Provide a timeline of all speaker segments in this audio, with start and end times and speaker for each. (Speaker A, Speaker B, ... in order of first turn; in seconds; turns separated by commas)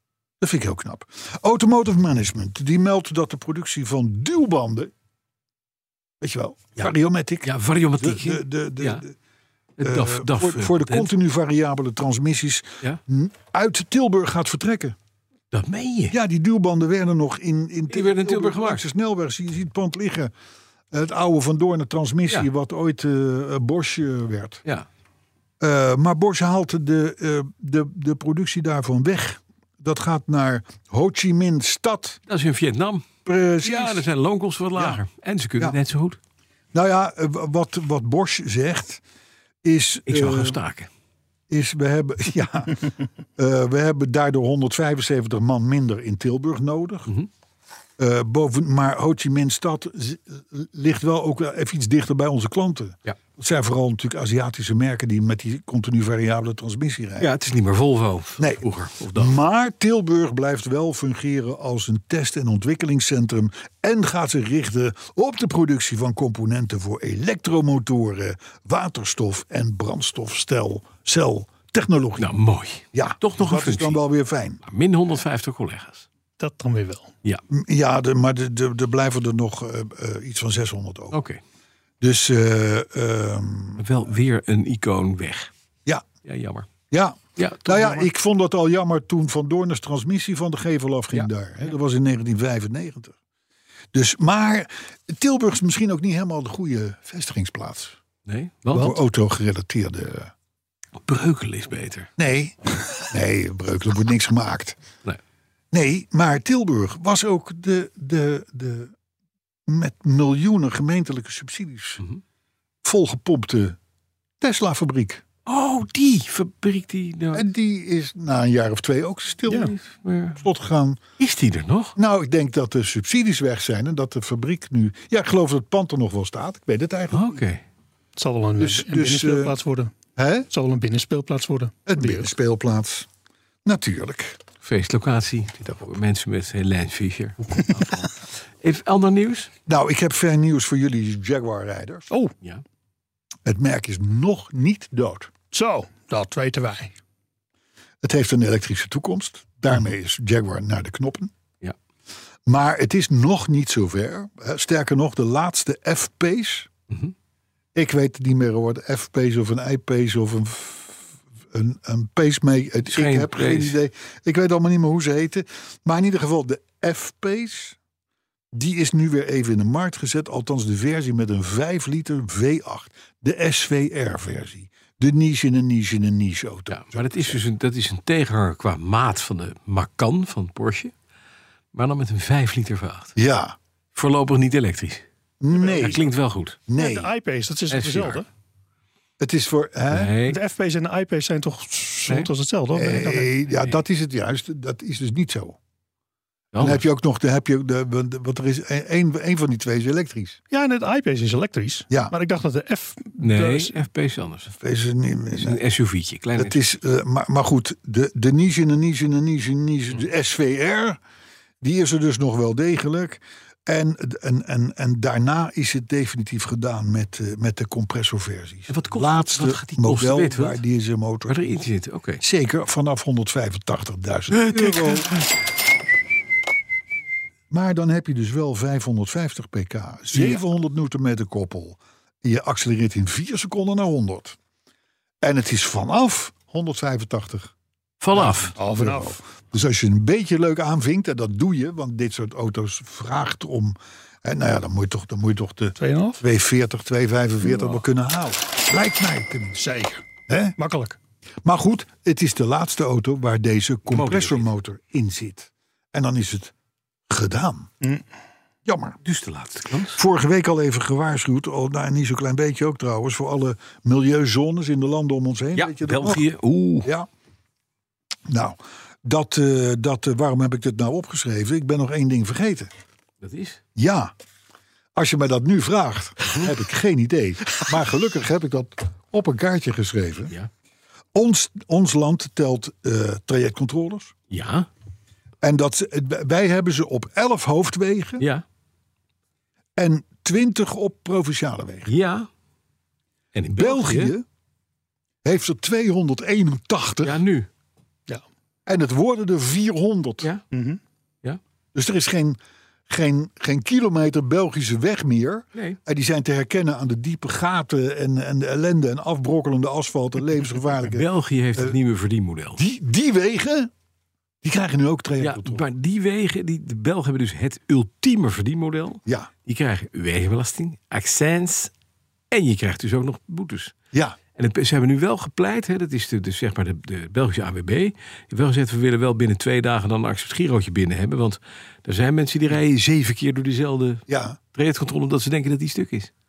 Speaker A: 0.4-4.9, Speaker A: 6.2-9.1, Speaker B: 7.4-9.0, Speaker B: 9.8-11.1, Speaker A: 9.8-14.9, Speaker B: 15.5-16.2, Speaker A: 16.1-20.3, Speaker B: 17.9-18.8, Speaker A: 20.9-24.6, Speaker A: 25.6-32.2, Speaker B: 32.3-36.2, Speaker A: 33.2-34.1, Speaker A: 34.8-35.0, Speaker A: 36.7-39.0, Speaker A: 39.6-40.6, Speaker B: 40.1-40.9, Speaker A: 41.5-47.1, Speaker A: 48.0-57.3, Speaker B: 57.2-59.4, Speaker A: 58.4-72.3, Speaker B: 72.2-74.0, Speaker A: 72.9-74.6, Speaker B: 74.6-76.0, Speaker C: 76.4-77.1, Speaker A: 77.5-81.2, Speaker B: 81.1-81.4, Speaker A: 82.0-83.8, Speaker B: 83.8-85.5, Speaker B: 86.2-86.7, Speaker A: 86.9-93.2, Speaker B: 87.4-88.1, Speaker A: 93.9-98.0, Speaker B: 98.3-99.0, Speaker A: 98.7-100.3, Speaker B: 101.0-102.1, Speaker A: 102.2-104.8, Speaker A: 105.7-108.9, Speaker A: 109.7-112.0, Speaker A: 112.8-113.8, Speaker A: 114.4-115.2, Speaker B: 115.5-117.5, Speaker A: 117.3-119.7, Speaker B: 119.5-120.4, Speaker A: 120.4-121.0, Speaker B: 121.2-122.0, Speaker A: 122.0-127.4, Speaker B: 127.1-127.6, Speaker C: 128.2-129.9, Speaker A: 128.6-129.6, Speaker A: 130.2-130.5, Speaker C: 130.5-132.3, Speaker A: 131.9-133.1, Speaker A: 133.6-134.4, Speaker B: 134.6-139.5, Speaker A: 139.7-142.1, Speaker A: 143.4-145.3, Speaker C: 145.5-146.9, Speaker A: 148.0-151.3, Speaker A: 152.4-156.7, Speaker A: 157.7-167.8, Speaker B: 162.9-163.8, Speaker A: 168.5-177.4, Speaker B: 176.7-180.9, Speaker B: 181.7-183.2, Speaker A: 183.2-183.6, Speaker B: 183.9-185.1, Speaker A: 185.4-186.0, Speaker C: 185.6-186.0, Speaker B: 185.6-186.6, Speaker A: 186.7-187.1, Speaker C: 186.7-188.3, Speaker B: 187.7-188.2, Speaker A: 189.2-190.2, Speaker B: 189.9-190.4, Speaker C: 190.3-193.3, Speaker A: 192.7-195.6, Speaker B: 196.5-196.8, Speaker A: 196.6-200.4, Speaker C: 200.5-203.8, Speaker B: 203.2-204.5, Speaker A: 204.5-205.6, Speaker B: 205.3-206.6, Speaker A: 206.3-211.0, Speaker A: 211.6-221.6, Speaker B: 218.7-220.6, Speaker B: 221.3-222.2, Speaker A: 222.2-225.1, Speaker B: 224.3-225.3, Speaker A: 227.5-234.4, Speaker A: 235.2-237.5, Speaker B: 238.0-238.5, Speaker A: 238.1-249.6, Speaker C: 238.6-239.2, Speaker C: 245.8-246.2, Speaker C: 249.6-250.1, Speaker A: 250.3-250.6, Speaker C: 250.6-251.0, Speaker A: 251.4-256.5, Speaker B: 253.9-254.5, Speaker A: 257.1-257.7, Speaker A: 258.6-259.0, Speaker B: 259.0-260.0, Speaker A: 259.9-266.3, Speaker B: 265.6-266.9, Speaker A: 268.3-272.7, Speaker B: 273.2-273.6, Speaker A: 273.7-274.1, Speaker A: 274.9-280.3, Speaker A: 281.1-284.1, Speaker B: 284.3-284.7, Speaker A: 285.4-288.2, Speaker B: 288.2-288.4, Speaker A: 289.8-291.9, Speaker B: 291.8-292.3, Speaker B: 293.3-294.1, Speaker A: 293.6-294.2, Speaker A: 295.2-297.2, Speaker B: 297.0-297.5, Speaker A: 298.6-300.3, Speaker C: 300.5-300.8, Speaker A: 301.7-302.4, Speaker A: 302.9-311.8, Speaker B: 310.9-312.6, Speaker A: 312.6-313.7, Speaker A: 314.4-315.6, Speaker B: 315.2-321.7, Speaker B: 322.3-323.7, Speaker A: 323.9-324.2, Speaker B: 324.4-336.1, Speaker A: 334.1-334.4